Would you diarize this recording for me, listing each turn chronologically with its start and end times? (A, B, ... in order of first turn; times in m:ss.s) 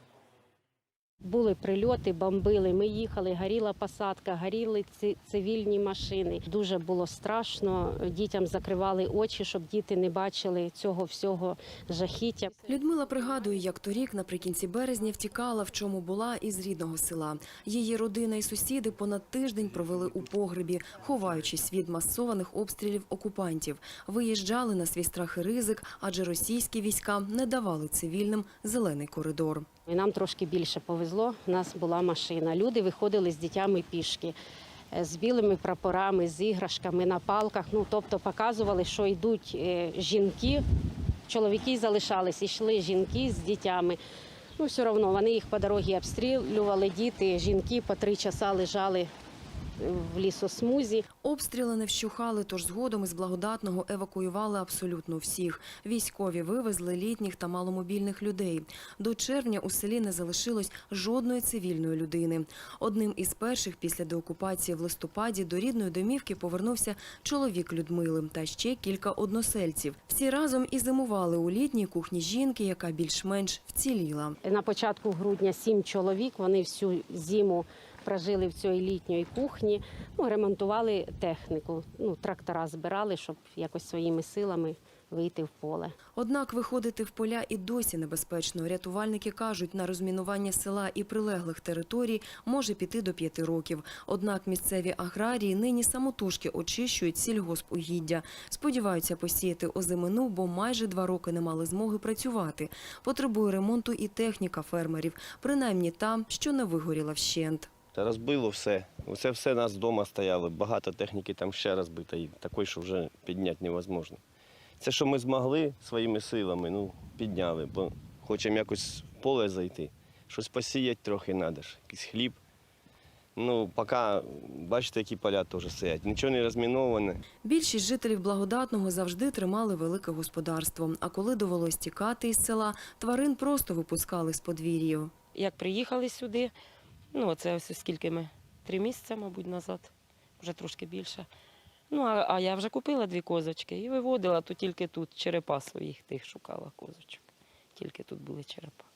0:01.2-0:12.6 A
0:12.7-0:29.7 B
0:29.9-0:34.4 A
0:34.9-0:40.6 A
0:41.3-0:44.0 A
0:44.6-0:49.1 A
0:49.8-0:51.1 A
0:51.2-1:14.4 B
1:14.4-1:26.0 A
1:26.2-1:47.7 B
1:47.9-1:54.2 C
1:54.8-2:02.4 C
2:03.4-2:07.2 C
2:07.4-2:15.1 B
2:15.3-2:16.5 D
2:17.1-2:21.3 D
2:21.9-2:27.2 D
2:27.8-2:28.9 D